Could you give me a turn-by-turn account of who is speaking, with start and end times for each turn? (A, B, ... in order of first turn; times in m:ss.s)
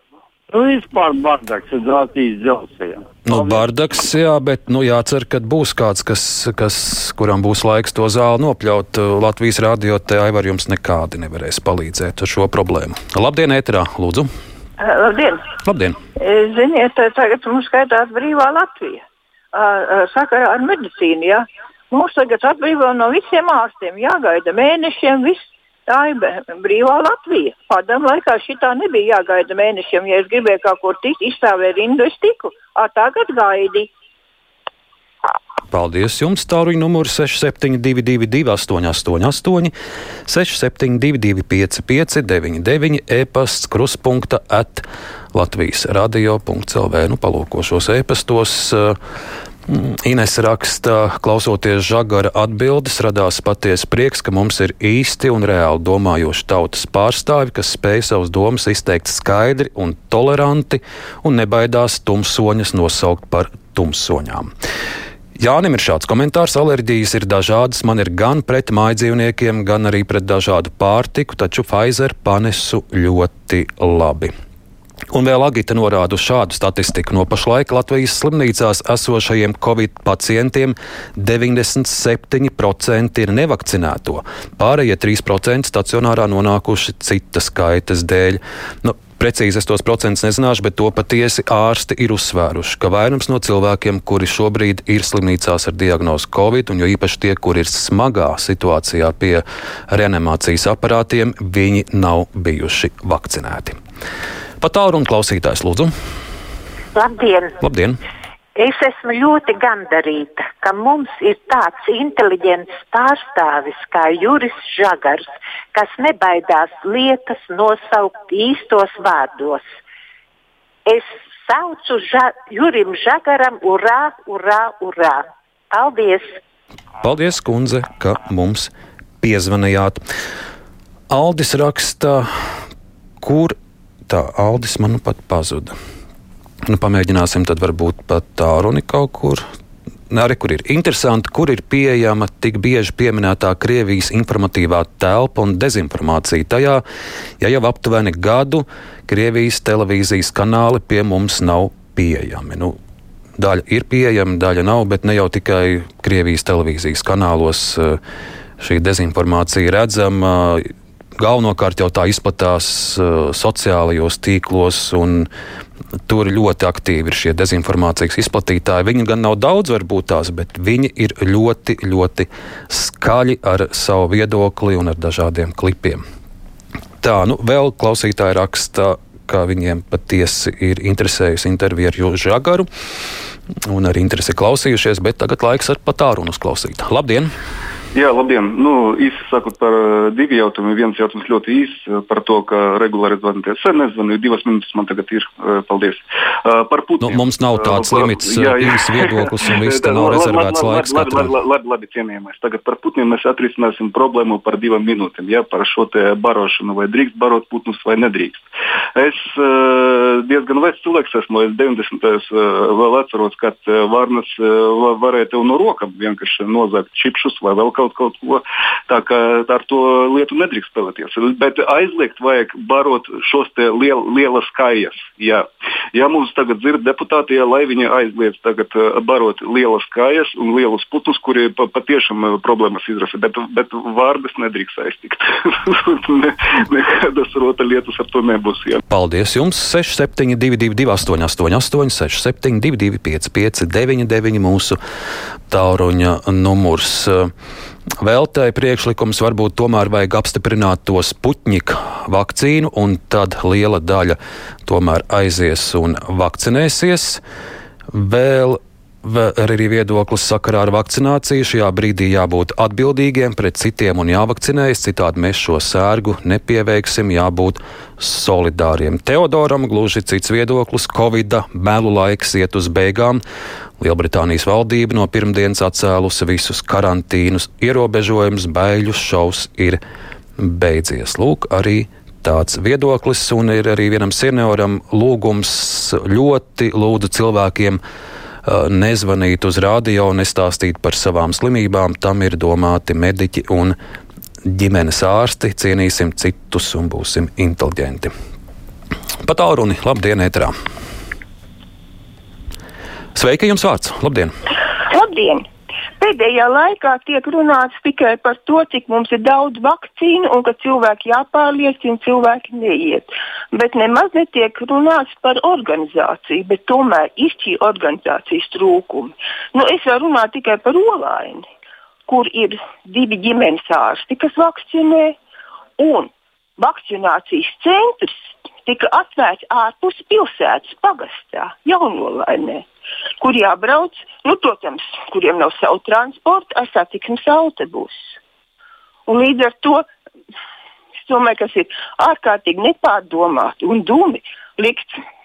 0:00.5-0:03.6 A
0:03.2-0:14.3 B
0:14.8-0:15.4 C
0:15.6-0:16.0 B
0:16.2-0:33.9 C
0:35.7-0:39.7 B
0:40.3-0:49.0 B
0:49.7-1:04.5 B
1:05.4-1:14.3 B
1:15.1-1:43.7 B
1:44.6-1:45.9 B
1:47.0-1:47.5 D
1:47.6-1:48.0 B
1:48.6-1:59.6 D
2:00.9-2:06.3 D
2:07.0-2:10.0 B
2:11.1-2:12.2 B
2:13.2-2:13.5 B
2:14.1-2:15.7 B
2:16.7-2:19.4 B
2:20.1-2:26.8 B
2:27.4-2:32.7 B
2:33.4-2:38.0 B
2:38.6-2:40.6 B
2:41.2-2:45.3 B
2:46.1-2:56.0 B
2:57.0-3:02.6 B
3:03.6-3:07.3 B
3:07.9-3:58.8 E
3:17.0-3:21.3 B
3:58.9-4:04.8 B
4:05.5-4:07.3 B
4:08.0-4:17.2 B
4:17.9-4:33.2 B
4:33.8-4:39.8 B
4:40.4-4:47.8 B
4:48.4-4:53.7 B
4:54.4-4:58.1 B
4:59.2-5:00.5 B
5:03.1-5:04.3 B
5:04.9-5:05.4 F
5:06.0-5:21.4 F
5:22.1-5:25.2 F
5:25.8-5:32.6 F
5:33.2-5:38.2 F
5:39.1-5:39.8 F
5:41.0-5:44.9 F